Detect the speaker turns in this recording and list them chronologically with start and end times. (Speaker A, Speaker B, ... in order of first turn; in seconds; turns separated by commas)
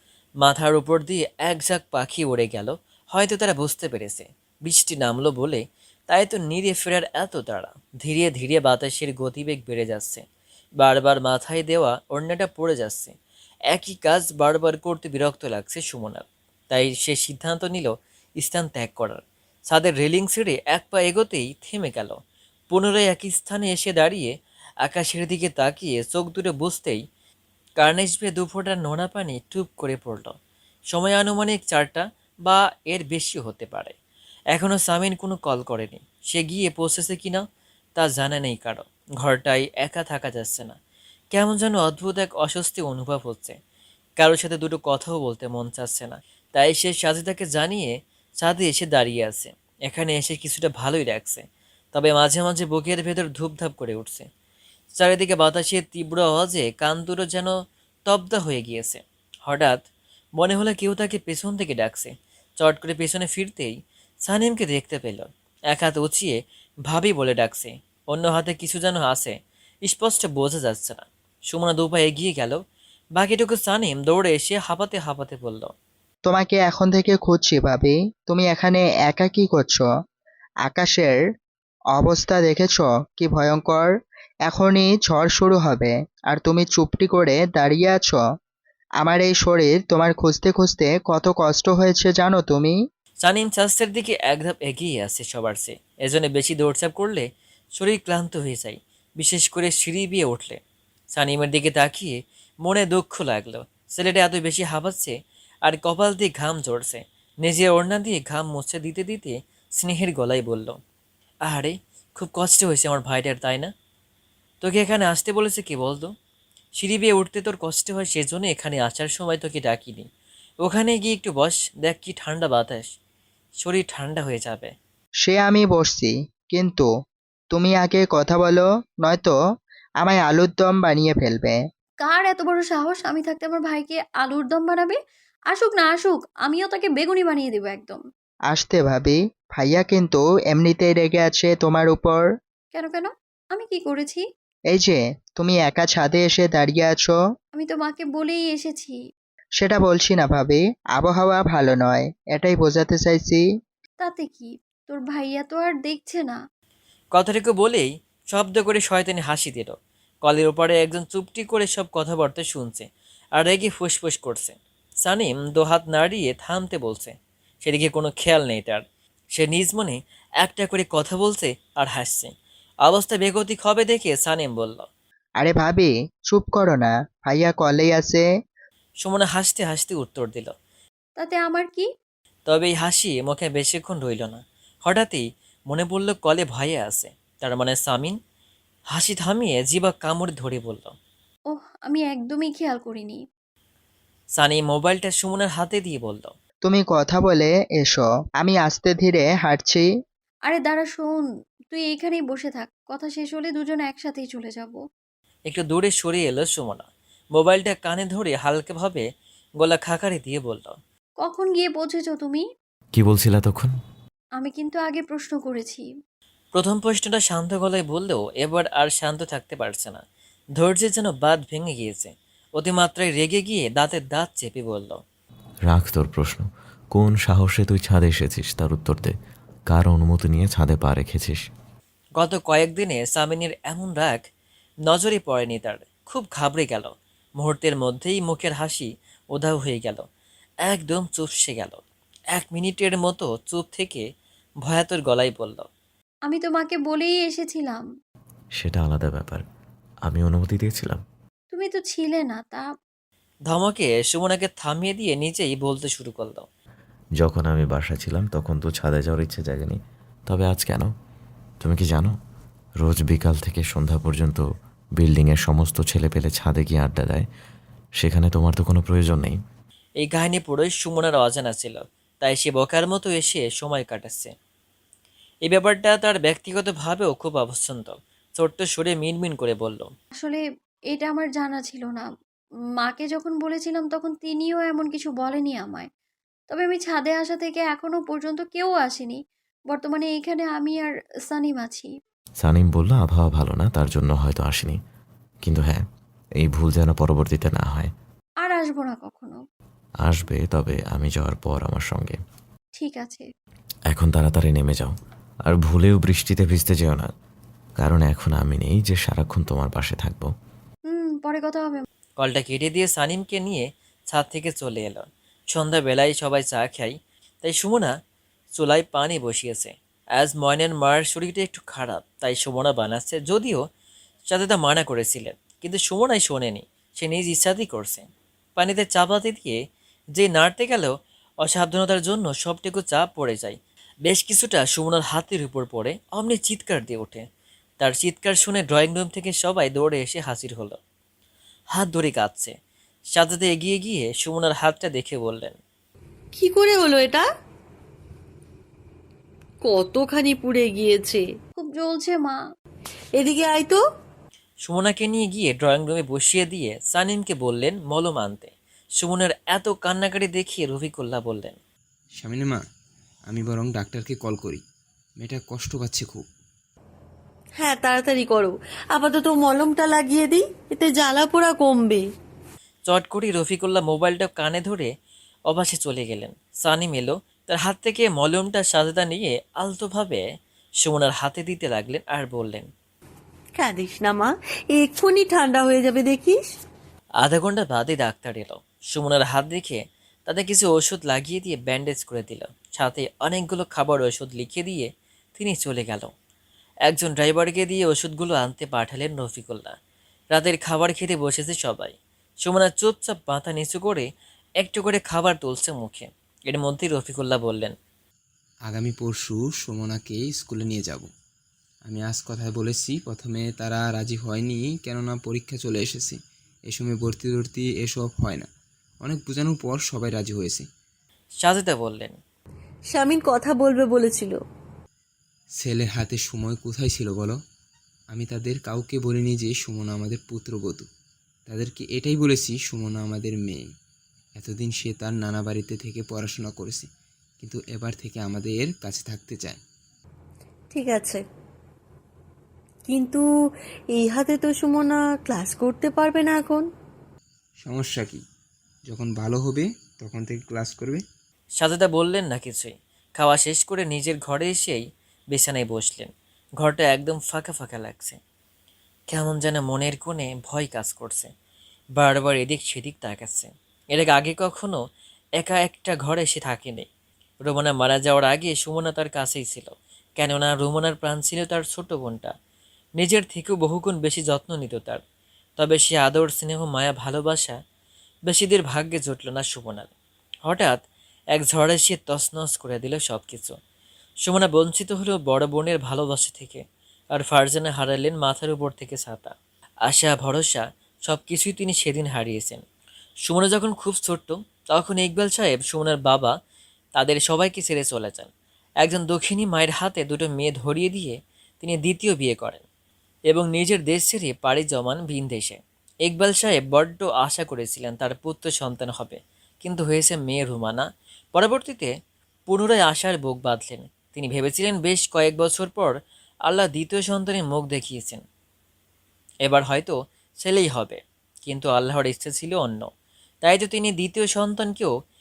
Speaker A: 0.4-10.2, Speaker A: 10.8-13.1, Speaker A: 13.7-22.2, Speaker A: 22.7-24.3, Speaker A: 24.8-27.0, Speaker A: 27.8-30.4, Speaker A: 30.9-34.0, Speaker A: 34.5-37.4, Speaker A: 38.0-40.8, Speaker A: 41.3-43.6, Speaker A: 44.2-54.3, Speaker A: 55.0-57.5, Speaker A: 58.1-59.9, Speaker A: 60.4-72.6, Speaker A: 73.2-75.7, Speaker B: 76.2-79.9, Speaker B: 80.7-81.2, Speaker B: 81.9-83.9, Speaker B: 84.5-88.2, Speaker B: 89.0-92.8, Speaker A: 93.2-100.6, Speaker A: 101.1-110.8, Speaker A: 111.4-113.7, Speaker A: 114.6-116.1, Speaker A: 116.8-120.1, Speaker A: 120.6-122.9, Speaker A: 123.6-124.7, Speaker B: 125.2-126.9, Speaker B: 127.5-129.3, Speaker B: 130.0-131.6, Speaker C: 132.0-135.0, Speaker C: 135.5-138.0, Speaker B: 138.5-142.3, Speaker C: 142.7-144.2, Speaker B: 144.7-147.2, Speaker C: 147.6-148.9, Speaker B: 149.6-153.4, Speaker C: 154.0-156.4, Speaker A: 157.1-168.8, Speaker A: 169.3-172.3, Speaker A: 172.8-174.9, Speaker B: 175.4-178.3, Speaker A: 179.0-180.5, Speaker C: 181.2-181.9, Speaker A: 182.5-188.2, Speaker A: 188.9-190.9, Speaker C: 191.5-193.2, Speaker A: 194.3-196.3, Speaker B: 196.6-199.9, Speaker C: 200.5-201.2, Speaker C: 201.7-204.8, Speaker A: 205.5-209.1, Speaker A: 209.6-210.8, Speaker C: 211.2-212.4, Speaker D: 212.9-213.7, Speaker C: 214.4-215.8, Speaker A: 216.5-220.0, Speaker A: 220.6-225.0, Speaker D: 225.7-229.1, Speaker D: 229.7-231.4, Speaker A: 232.2-234.2, Speaker A: 234.8-240.1, Speaker A: 240.6-241.8, Speaker A: 242.3-244.1, Speaker A: 244.6-245.7, Speaker C: 246.3-247.8, Speaker D: 248.6-249.4, Speaker D: 250.1-251.0, Speaker C: 251.5-252.6, Speaker A: 253.5-256.5, Speaker D: 257.2-260.9, Speaker D: 261.6-262.1, Speaker D: 262.8-264.4, Speaker D: 265.0-267.3, Speaker D: 268.0-269.4, Speaker A: 270.0-274.3, Speaker A: 275.4-279.9, Speaker C: 280.9-282.1, Speaker C: 282.8-285.9, Speaker C: 286.5-289.2, Speaker C: 289.7-291.9, Speaker D: 292.4-294.8, Speaker D: 295.4-295.8, Speaker D: 296.4-297.9, Speaker C: 298.4-299.4, Speaker D: 300.0-302.2, Speaker C: 302.8-303.3, Speaker D: 303.9-304.9, Speaker D: 305.4-307.1, Speaker D: 307.8-310.3, Speaker C: 310.9-311.9, Speaker A: 312.2-317.9, Speaker A: 318.5-323.6, Speaker A: 324.3-329.6, Speaker A: 330.1-337.2, Speaker A: 337.8-340.8, Speaker A: 341.7-342.5, Speaker A: 343.1-345.6, Speaker E: 346.4-347.3, Speaker E: 349.6-351.3, Speaker C: 351.6-352.4, Speaker E: 353.2-353.8, Speaker A: 354.6-361.6, Speaker F: 362.2-362.6, Speaker F: 363.3-364.6, Speaker F: 365.2-366.2, Speaker E: 367.6-372.1, Speaker A: 372.9-374.9, Speaker A: 375.5-380.2, Speaker A: 380.8-382.7, Speaker E: 383.6-386.5, Speaker A: 387.2-396.1, Speaker A: 396.9-399.7, Speaker A: 400.3-404.1, Speaker A: 404.6-407.7, Speaker F: 408.7-411.1, Speaker F: 411.9-418.5, Speaker F: 419.0-420.7, Speaker A: 421.4-422.2, Speaker E: 422.9-424.4, Speaker F: 425.6-427.4, Speaker F: 428.1-430.9, Speaker F: 431.5-433.7, Speaker F: 434.4-436.9, Speaker F: 437.4-439.6, Speaker E: 440.7-441.2, Speaker E: 442.9-443.2, Speaker E: 443.9-446.7, Speaker F: 447.6-448.2, Speaker F: 448.9-451.0, Speaker A: 451.6-458.2, Speaker A: 459.1-461.3, Speaker A: 462.0-464.8, Speaker A: 465.4-466.9, Speaker A: 467.4-472.3, Speaker A: 473.0-475.0, Speaker A: 475.6-477.6, Speaker A: 478.3-479.9, Speaker A: 480.4-483.6, Speaker A: 484.2-489.3, Speaker A: 489.9-492.6, Speaker A: 493.2-496.3, Speaker A: 496.9-498.3, Speaker A: 498.8-502.6, Speaker A: 503.3-511.9, Speaker A: 512.5-518.2, Speaker A: 519.4-522.9, Speaker A: 523.4-524.9